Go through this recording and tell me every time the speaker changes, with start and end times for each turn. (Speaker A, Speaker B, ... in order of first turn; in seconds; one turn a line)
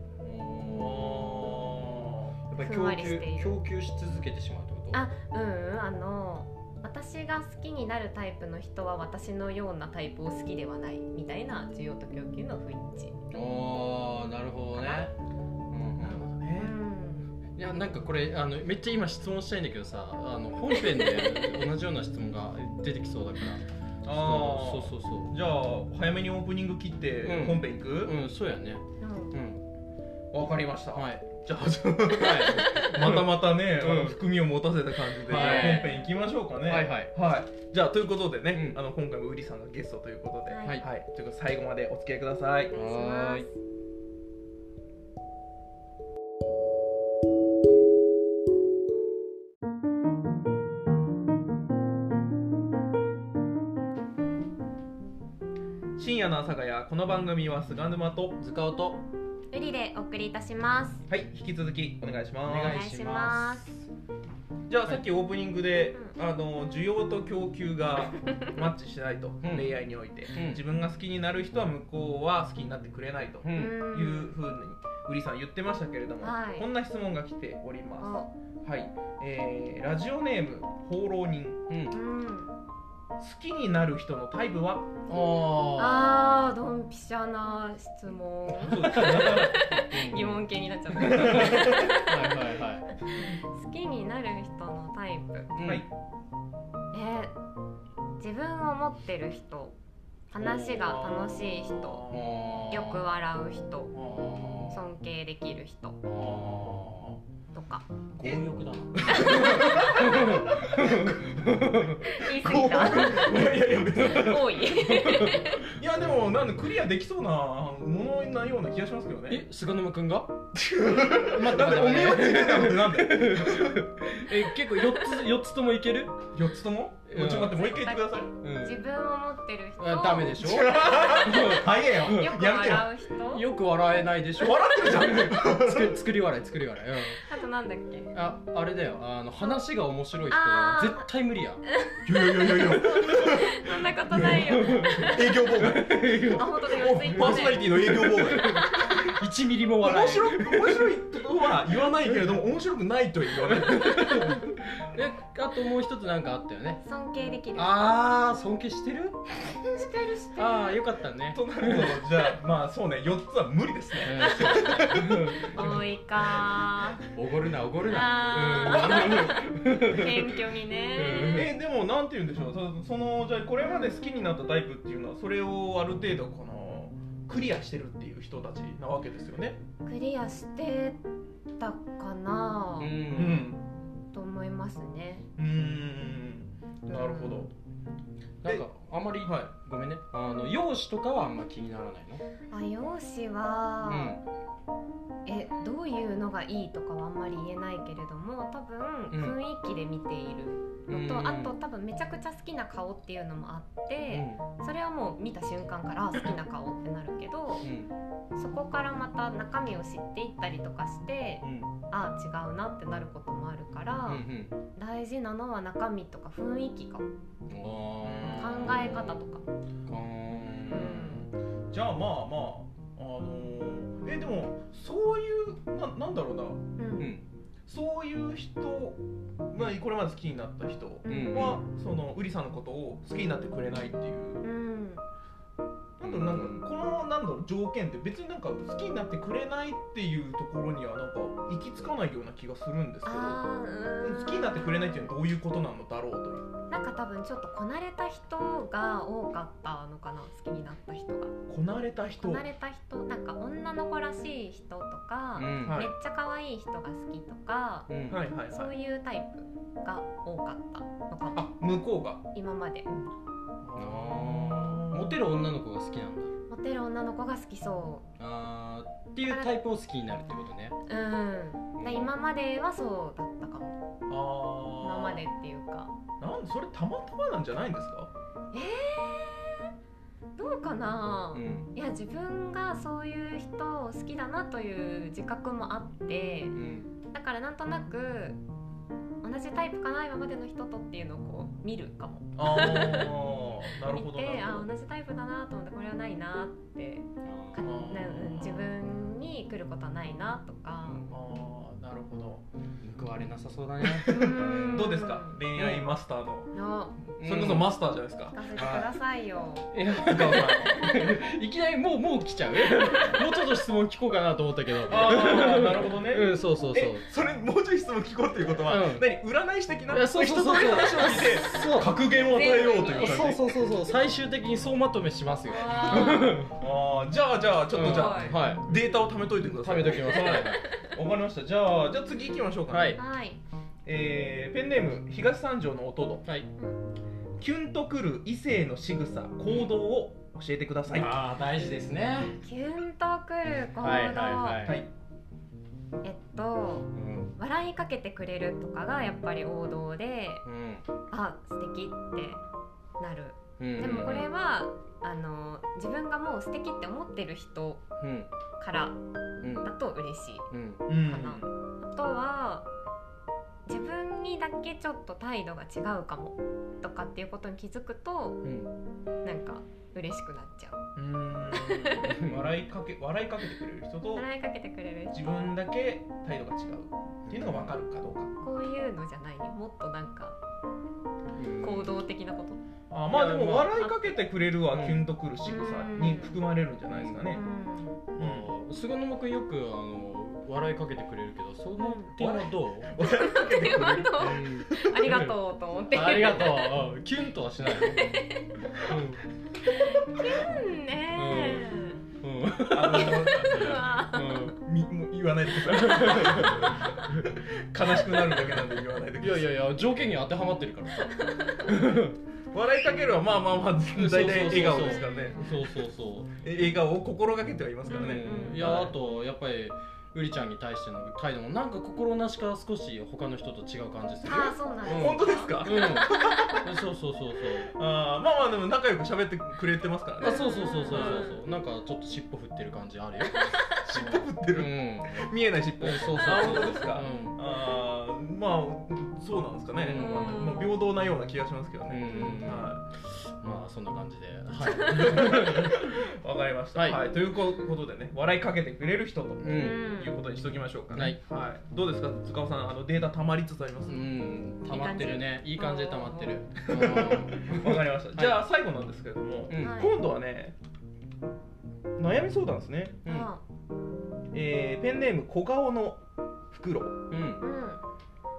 Speaker A: 0.2-5.0
Speaker B: 0.7-2.3
Speaker C: 2.6-3.6
Speaker C: 4.9-13.2
Speaker A: 13.3-15.1
Speaker C: 14.7-15.1
Speaker A: 15.7-16.2
Speaker B: 16.0-16.7
Speaker C: 16.6-17.3
Speaker A: 17.5-25.3
Speaker B: 24.0-28.1
Speaker A: 27.2-29.6
Speaker C: 29.0-29.3
Speaker B: 30.3-42.7
Speaker A: 30.9-31.2
Speaker A: 32.1-34.2
Speaker A: 35.2-36.0
Speaker C: 35.3-36.0
Speaker A: 36.7-37.1
Speaker A: 38.5-38.8
Speaker C: 40.5-40.8
Speaker C: 42.7-43.5
Speaker A: 42.7-43.5
Speaker B: 56.0-58.4
Speaker A: 58.4-59.0
Speaker C: 59.5-61.0
Speaker B: 61.1-62.8
Speaker A: 62.5-63.8
Speaker C: 62.5-63.7
Speaker B: 64.7-81.6
Speaker A: 69.4-69.8
Speaker A: 70.3-70.6
Speaker A: 73.4-73.8
Speaker C: 73.5-74.3
Speaker C: 76.2-76.7
Speaker C: 78.0-78.3
Speaker A: 81.7-81.9
Speaker C: 81.9-82.5
Speaker B: 83.2-85.0
Speaker A: 85.1-86.5
Speaker C: 85.8-92.5
Speaker B: 88.6-89.6
Speaker A: 88.7-90.4
Speaker A: 91.0-92.9
Speaker B: 91.0-91.9
Speaker C: 93.0-95.5
Speaker A: 95.5-95.8
Speaker B: 95.6-95.9
Speaker C: 96.9-97.3
Speaker C: 98.2-99.7
Speaker C: 100.3-102.0
Speaker A: 100.3-101.0
Speaker B: 100.8-102.5
Speaker A: 102.1-103.1
Speaker C: 102.7-103.9
Speaker A: 103.9-104.8
Speaker C: 104.7-106.0
Speaker A: 106.0-107.2
Speaker C: 107.5-107.9
Speaker A: 108.2-112.0
Speaker B: 108.2-111.5
Speaker C: 109.0-110.2
Speaker C: 112.0-115.7
Speaker B: 112.2-114.7
Speaker A: 113.0-113.2
Speaker A: 114.0-115.4
Speaker B: 115.4-119.4
Speaker A: 119.3-120.4
Speaker B: 120.5-123.8
Speaker A: 121.0-126.2
Speaker B: 126.3-128.3
Speaker A: 127.1-127.6
Speaker C: 127.5-133.4
Speaker A: 128.4-128.8
Speaker A: 129.8-132.8
Speaker B: 130.4-132.9
Speaker A: 133.3-137.2
Speaker B: 134.4-136.0
Speaker C: 137.2-138.1
Speaker A: 138.1-141.6
Speaker C: 140.3-141.1
Speaker C: 141.7-145.4
Speaker B: 142.0-149.1
Speaker A: 144.1-150.9
Speaker C: 146.3-147.8
Speaker B: 149.8-154.4
Speaker A: 153.5-156.8
Speaker C: 156.8-157.9
Speaker A: 157.5-159.5
Speaker C: 159.7-160.8
Speaker A: 160.3-162.0
Speaker B: 161.3-165.8
Speaker A: 164.0-165.9
Speaker C: 164.2-167.0
Speaker A: 167.0-171.5
Speaker C: 167.8-171.5
Speaker B: 168.8-169.3
Speaker B: 171.3-179.6
Speaker C: 173.6-174.1
Speaker C: 179.8-181.0
Speaker C: 181.6-182.9
Speaker A: 182.8-183.5
Speaker B: 183.1-183.6
Speaker C: 184.1-185.3
Speaker B: 185.4-187.5
Speaker C: 186.9-187.5
Speaker A: 188.4-192.2
Speaker B: 189.2-189.5
Speaker C: 192.5-194.2
Speaker A: 193.8-194.2
Speaker C: 195.2-207.7
Speaker A: 199.1-199.3
Speaker A: 200.9-201.5
Speaker A: 204.1-204.4
Speaker A: 207.6-207.9
Speaker C: 208.3-217.1
Speaker A: 211.4-211.7
Speaker A: 214.1-214.5
Speaker A: 217.5-219.2
Speaker B: 218.0-218.9
Speaker C: 218.3-219.4
Speaker A: 219.8-221.1
Speaker B: 220.3-226.6
Speaker C: 220.7-221.2
Speaker C: 226.8-227.1
Speaker A: 227.0-227.2
Speaker B: 227.7-234.4
Speaker C: 231.0-231.6
Speaker A: 231.1-231.6
Speaker C: 234.4-235.0
Speaker B: 236.0-243.4
Speaker A: 236.0-236.6
Speaker C: 243.1-245.0
Speaker B: 244.0-246.4
Speaker C: 246.7-251.3
Speaker B: 251.5-252.4
Speaker C: 252.2-257.9
Speaker A: 255.3-255.8
Speaker B: 255.6-255.9
Speaker A: 257.9-258.2
Speaker B: 258.1-258.7
Speaker C: 258.5-261.5
Speaker B: 261.3-262.2
Speaker C: 262.3-263.1
Speaker B: 263.6-265.2
Speaker A: 263.8-266.3
Speaker C: 266.5-268.0
Speaker A: 268.2-270.8
Speaker C: 269.2-269.5
Speaker C: 270.9-273.7
Speaker A: 271.8-272.1
Speaker B: 274.1-275.2
Speaker C: 274.8-275.9
Speaker B: 276.2-278.1
Speaker C: 278.5-279.6
Speaker C: 280.4-286.6
Speaker A: 281.3-281.7
Speaker A: 286.5-286.9
Speaker C: 287.1-288.4
Speaker C: 289.2-301.0
Speaker B: 292.4-294.7
Speaker A: 297.2-297.8
Speaker B: 297.6-298.7
Speaker A: 300.8-301.1
Speaker B: 301.1-302.4
Speaker A: 302.8-305.0
Speaker B: 303.8-306.5
Speaker C: 304.1-305.4
Speaker A: 305.5-305.9
Speaker C: 306.5-306.9
Speaker B: 307.1-308.4
Speaker A: 307.2-307.7
Speaker C: 308.3-309.7
Speaker A: 308.5-308.9
Speaker A: 309.7-317.0
Speaker B: 310.0-310.9
Speaker B: 314.9-323.6
Speaker A: 318.6-319.1
Speaker A: 319.9-321.9
Speaker C: 322.2-323.3
Speaker A: 322.9-326.6
Speaker C: 325.5-326.4
Speaker B: 325.9-333.0
Speaker A: 327.7-328.6
Speaker C: 327.8-328.4
Speaker A: 329.6-330.6
Speaker C: 330.4-330.9
Speaker A: 332.7-333.0
Speaker C: 332.9-333.4
Speaker B: 333.9-336.2
Speaker B: 337.4-341.1
Speaker A: 339.4-339.7
Speaker A: 340.9-342.4
Speaker C: 342.4-344.6
Speaker A: 343.8-344.8
Speaker B: 344.6-344.9
Speaker C: 346.0-350.4
Speaker A: 346.9-347.3
Speaker A: 350.4-350.8
Speaker C: 351.1-352.4
Speaker C: 353.0-357.9
Speaker A: 353.6-354.3
Speaker A: 358.0-358.3
Speaker C: 358.6-359.0
Speaker A: 359.4-359.7
Speaker C: 359.6-360.5
Speaker A: 360.5-360.8
Speaker B: 360.9-361.5
Speaker C: 361.0-362.7
Speaker C: 363.6-368.4
Speaker A: 368.4-368.7
Speaker C: 369.2-370.8
Speaker B: 370.9-374.2
Speaker C: 371.5-372.1
Speaker A: 372.1-372.5
Speaker C: 374.1-375.2
Speaker B: 375.1-378.3
Speaker A: 377.3-377.8
Speaker C: 378.4-380.4
Speaker A: 381.4-381.9
Speaker C: 381.6-382.6
Speaker B: 382.9-387.4
Speaker A: 383.1-383.9
Speaker A: 384.7-385.0
Speaker C: 385.4-386.4
Speaker A: 386.9-387.2
Speaker C: 387.3-388.0
Speaker B: 388.1-388.5
Speaker A: 388.2-392.9
Speaker C: 391.8-392.1
Speaker B: 392.2-394.8
Speaker C: 393.0-396.8
Speaker A: 394.2-395.4
Speaker A: 395.9-398.2
Speaker C: 397.7-398.5
Speaker A: 398.8-399.2
Speaker C: 399.7-402.0
Speaker A: 401.1-404.6
Speaker B: 402.7-403.9
Speaker C: 402.9-404.4
Speaker B: 404.4-409.5
Speaker A: 405.7-407.3
Speaker A: 409.2-412.2
Speaker C: 411.1-411.7
Speaker B: 412.5-415.6
Speaker A: 413.9-416.3
Speaker C: 414.8-415.5
Speaker B: 416.4-418.9
Speaker C: 417.9-418.7
Speaker A: 417.9-427.7
Speaker C: 424.2-426.0
Speaker B: 424.8-426.7
Speaker B: 427.7-431.3
Speaker A: 430.2-437.4
Speaker C: 430.2-431.4
Speaker C: 433.4-433.7
Speaker B: 433.8-442.8
Speaker A: 439.8-440.5
Speaker C: 439.9-440.8
Speaker A: 441.9-446.0
Speaker C: 442.0-442.6
Speaker C: 444.6-445.5
Speaker B: 444.9-454.1
Speaker A: 446.7-447.0
Speaker A: 449.4-449.8
Speaker C: 449.5-450.2
Speaker A: 453.9-458.4
Speaker C: 454.6-456.4
Speaker B: 456.6-460.6
Speaker A: 459.5-459.8
Speaker C: 459.6-459.9
Speaker B: 462.0-463.0
Speaker C: 463.1-463.4
Speaker B: 464.3-467.0
Speaker A: 467.1-467.4
Speaker C: 467.4-467.8